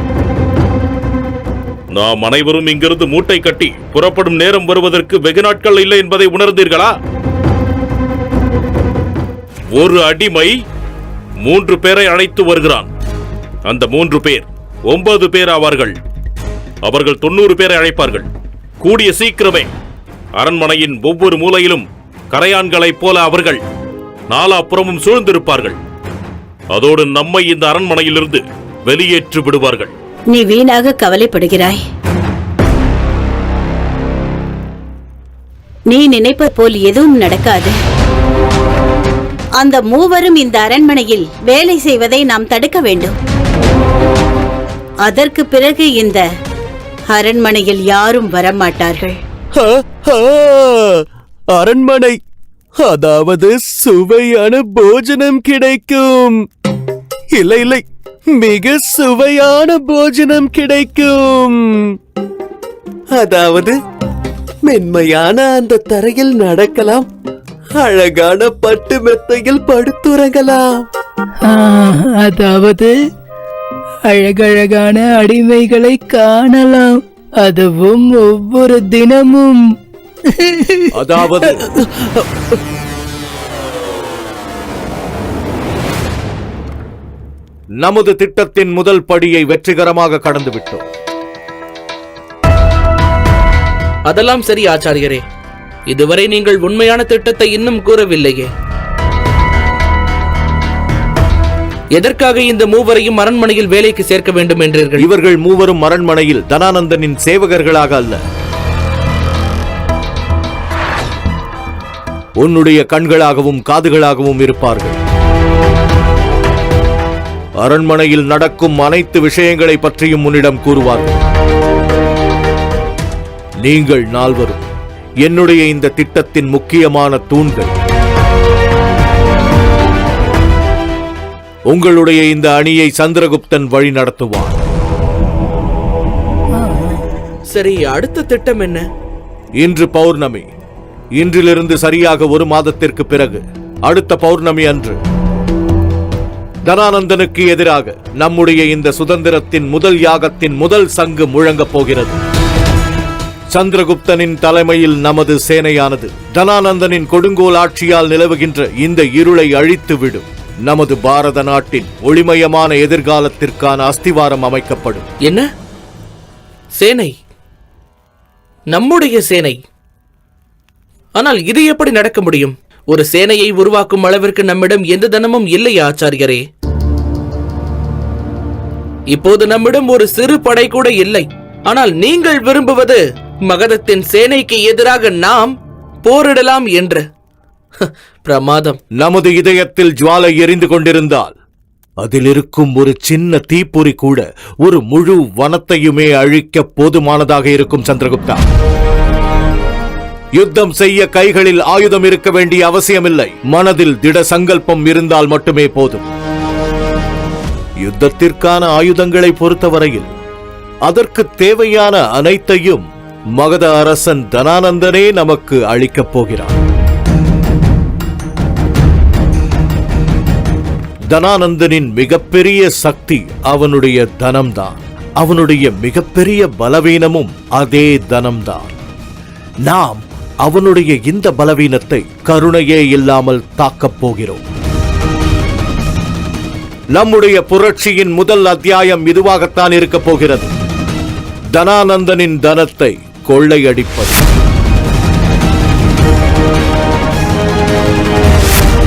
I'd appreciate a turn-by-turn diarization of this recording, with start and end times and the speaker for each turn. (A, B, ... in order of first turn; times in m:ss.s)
0:01.9-0:06.9 A
0:09.7-0:10.5 A
0:11.4-0:12.9 A
0:13.7-0:15.9 A
0:16.8-0:18.3 A
0:18.8-0:19.7 A
0:20.4-0:23.6 A
0:24.3-0:25.8 A
0:26.7-0:29.9 A
0:30.3-0:31.8 B
0:35.9-0:37.7 B
0:39.6-0:43.1 B
0:45.0-0:46.2 B
0:47.1-0:49.1 B
0:49.6-0:50.8 C
0:51.5-0:52.2 C
0:52.8-0:56.3 C
0:57.4-1:01.6 C
1:03.2-1:03.7 C
1:04.7-1:07.0 C
1:07.8-1:10.6 C
1:11.5-1:12.9 D
1:14.1-1:19.6 D
1:20.3-1:20.9 D
1:20.9-1:21.7 E
1:27.8-1:30.8 E
1:34.1-1:35.2 F
1:35.9-1:38.5 F
1:41.9-1:45.1 F
1:45.0-1:48.2 E
1:52.4-1:55.0 E
1:57.6-2:01.2 E
2:03.6-2:04.6 E
2:05.2-2:07.7 E
2:11.7-2:14.6 E
2:17.5-2:18.8 F
2:19.6-2:20.4 E
2:21.2-2:25.0 E
2:26.6-2:32.2 E
2:33.5-2:45.1 E
2:46.8-2:47.1 F
2:48.7-2:49.6 F
2:51.2-2:56.4 F
2:59.1-3:07.0 F
3:07.8-3:08.8 F
3:09.0-3:11.4 E
3:12.0-3:18.4 E
3:20.4-3:26.0 E
3:27.8-3:30.1 E
3:30.8-3:32.8 E
3:33.4-3:36.5 E
3:41.1-3:48.7 E
3:49.6-3:54.4 E
3:56.9-4:00.5 E
4:01.5-4:04.2 E